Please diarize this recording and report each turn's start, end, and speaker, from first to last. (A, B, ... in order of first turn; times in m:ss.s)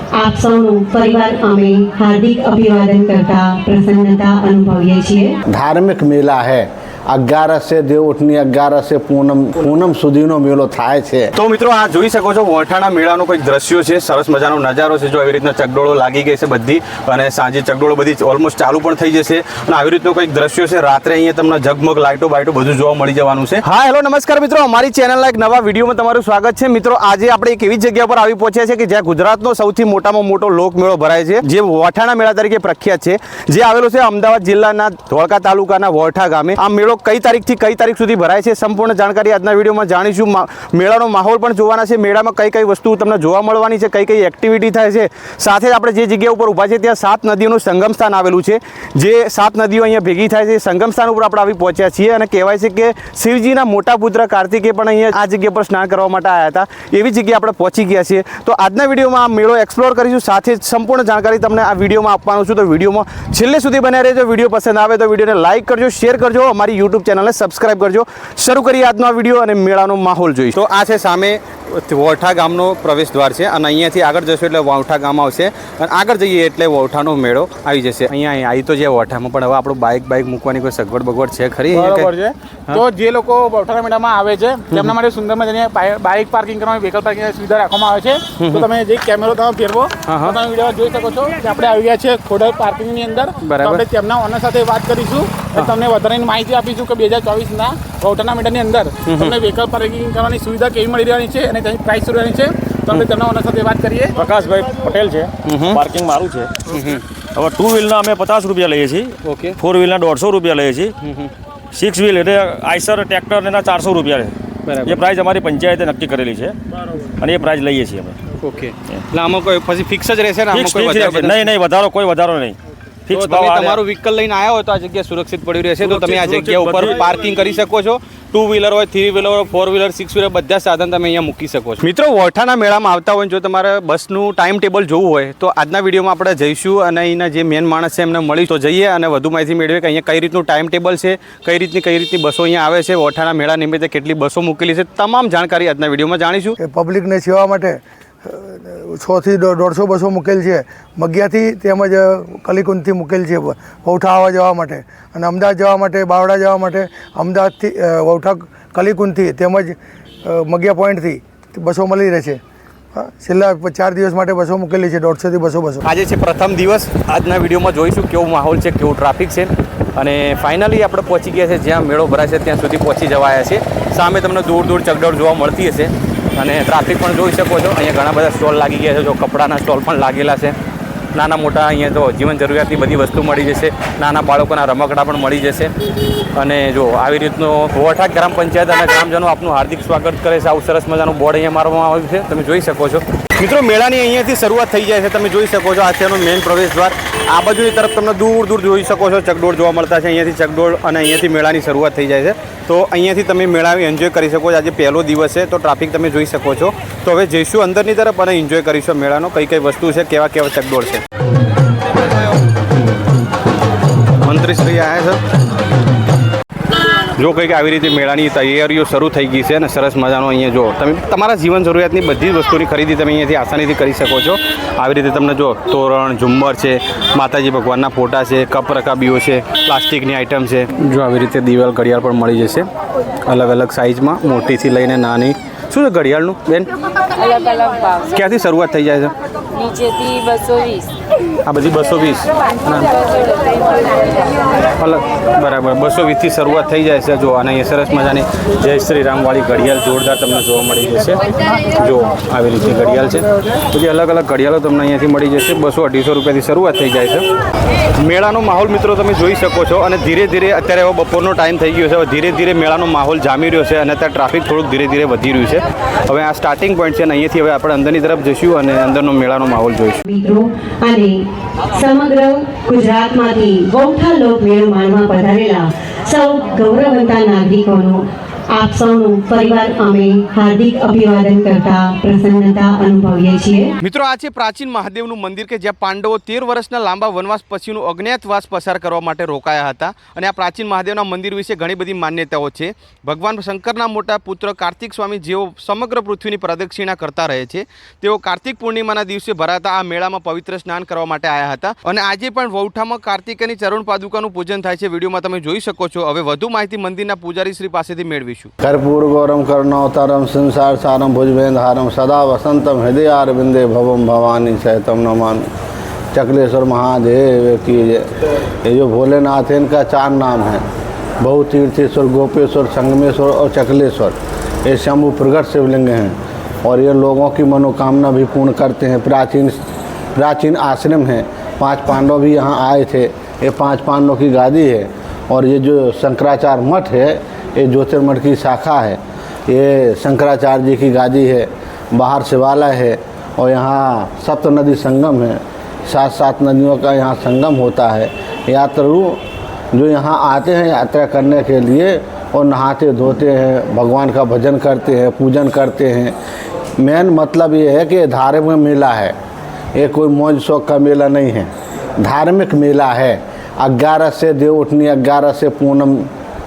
0:00.2-0:05.3 A
0:05.5-0:11.3 B
0:11.4-1:22.1 C
1:21.7-1:44.1 D
1:28.4-1:28.6 C
1:30.0-1:30.4 C
1:33.4-1:33.8 C
1:39.0-1:39.4 C
1:44.2-1:46.5 E
1:45.4-1:45.8 C
1:46.7-1:47.0 C
1:47.4-1:50.9 E
1:49.2-1:49.6 C
1:51.0-1:51.3 C
1:51.7-1:54.3 E
1:54.7-1:55.0 C
1:54.8-1:56.5 E
1:57.2-1:58.1 E
1:58.4-2:01.5 C
2:00.5-2:02.5 E
2:03.1-2:03.8 E
2:03.1-2:26.6 C
2:05.8-2:07.0 E
2:26.6-2:42.4 F
2:42.9-2:45.8 F
2:45.8-3:00.5 C
3:01.1-3:05.7 C
3:06.3-3:31.0 C
3:34.2-3:35.2 C
3:37.2-3:52.6 C
3:53.2-3:56.7 C
3:57.9-3:59.1 C
4:01.4-4:02.9 C
4:04.8-4:17.2 C
4:18.0-4:30.0 C
4:30.1-4:31.1 A
4:31.7-4:38.0 A
4:38.5-4:43.7 A
4:43.8-5:08.5 C
5:08.6-5:15.5 B
5:16.1-5:18.0 B
5:18.6-5:20.6 B
5:21.2-5:29.6 B
5:30.2-5:49.2 B
5:49.7-5:56.1 B
5:56.8-5:59.2 B
5:59.8-6:06.1 B